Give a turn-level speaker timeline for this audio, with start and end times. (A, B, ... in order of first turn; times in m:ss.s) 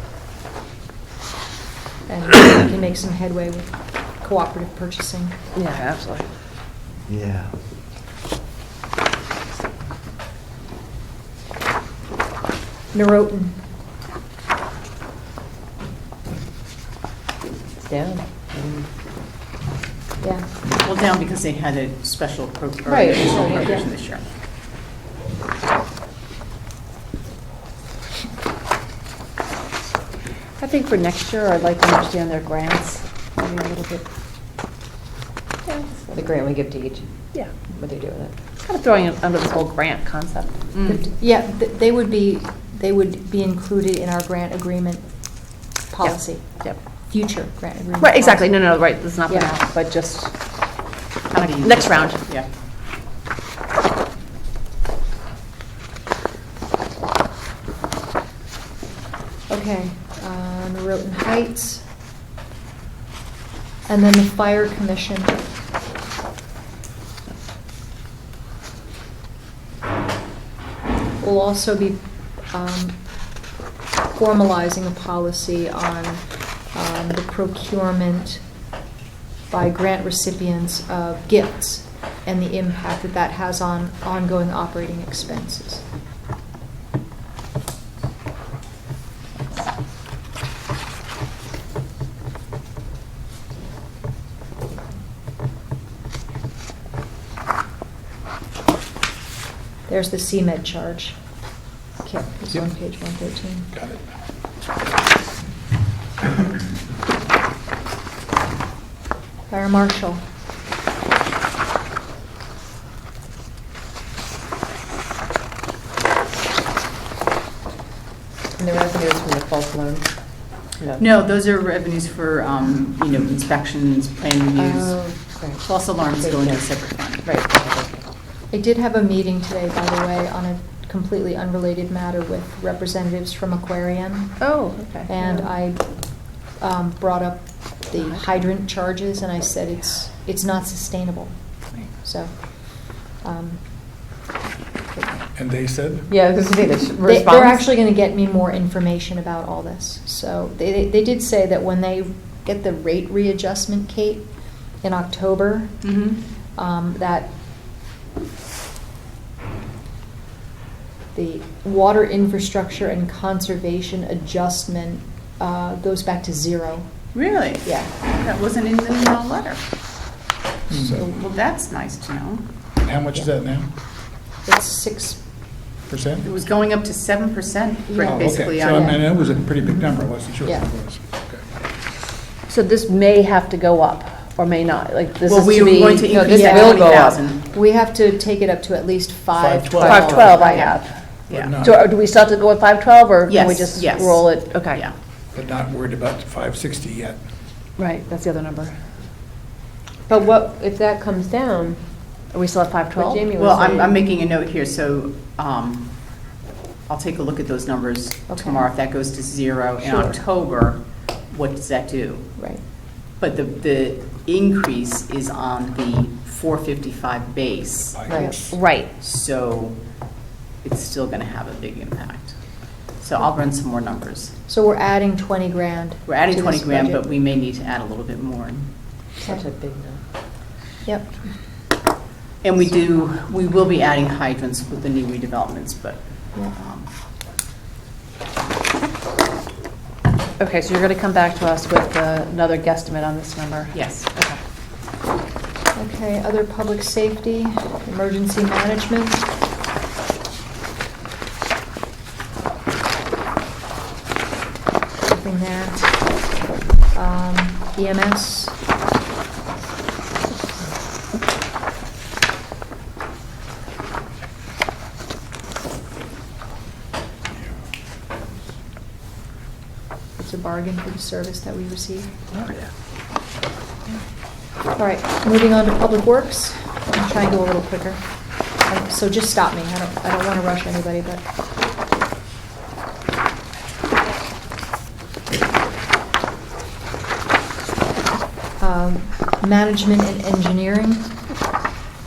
0:02.1-0:05.4 A
0:05.6-0:06.3 B
0:12.9-0:13.6 A
0:17.8-0:18.9 C
0:20.2-0:20.5 A
0:20.8-0:24.2 D
0:22.9-0:23.6 C
0:23.4-0:23.9 A
0:30.6-0:34.0 B
0:36.0-0:37.1 C
0:37.7-0:38.3 C
0:38.6-0:40.6 B
0:40.8-0:45.3 A
0:45.9-0:46.5 A
0:46.0-0:46.8 B
0:47.1-0:48.6 A
0:48.0-0:50.3 B
0:49.3-0:49.5 A
0:51.3-0:52.5 D
0:51.6-0:52.2 B
0:59.5-1:01.8 A
1:03.9-1:05.4 A
1:11.2-1:13.0 A
1:14.1-1:18.4 A
1:19.5-1:25.8 A
1:39.9-1:41.2 A
1:42.0-1:43.7 A
1:43.7-1:44.1 E
1:49.5-1:50.2 A
1:58.6-2:00.1 C
2:01.0-2:05.1 D
2:04.9-2:05.6 C
2:05.6-2:07.3 D
2:06.2-2:06.6 C
2:07.2-2:08.0 C
2:08.5-2:14.5 A
2:14.4-2:15.1 B
2:15.1-2:15.8 A
2:16.6-2:21.3 A
2:22.0-2:23.6 A
2:25.4-2:26.1 E
2:26.2-2:27.6 B
2:27.0-2:34.3 A
2:34.8-2:35.9 A
2:35.8-2:36.2 D
2:36.6-2:37.3 A
2:41.1-2:46.9 A
2:47.1-2:49.6 D
2:47.6-2:47.9 A
2:50.7-2:51.1 E
2:50.7-2:51.0 A
2:51.0-2:52.4 D
2:52.8-2:53.7 E
2:54.5-2:55.2 A
2:55.9-2:56.3 E
2:56.2-2:59.0 D
2:58.0-2:58.2 A
2:58.1-3:01.4 E
3:02.5-3:07.2 B
3:05.3-3:07.4 D
3:06.1-3:07.1 C
3:06.3-3:06.9 A
3:07.5-3:10.5 A
3:09.3-3:10.5 E
3:09.8-3:11.0 B
3:10.0-3:11.6 D
3:11.3-3:11.9 E
3:11.6-3:14.8 B
3:13.3-3:14.9 D
3:15.3-3:17.2 E
3:17.8-3:18.8 B
3:20.1-3:21.8 C
3:22.3-3:23.3 B
3:23.0-3:23.9 C
3:23.3-3:26.0 D
3:26.9-3:32.4 D
3:28.3-3:28.6 A
3:33.2-3:38.2 D
3:37.9-3:38.4 E
3:38.1-3:38.4 C
3:38.1-3:38.4 A
3:38.5-3:38.9 B
3:39.0-3:39.8 D
3:40.6-3:42.4 D
3:43.0-3:44.3 D
3:44.5-3:47.0 A
3:46.1-3:48.7 D
3:49.2-3:50.0 C
3:50.9-3:51.1 A
3:52.4-3:56.9 D
4:00.4-4:04.4 B
4:03.7-4:04.1 D
4:05.8-4:09.3 A
4:15.1-4:16.1 A
4:16.9-4:18.6 A
4:30.2-4:32.1 A
4:34.8-4:38.0 A
4:38.6-4:41.3 A
4:48.6-4:51.2 A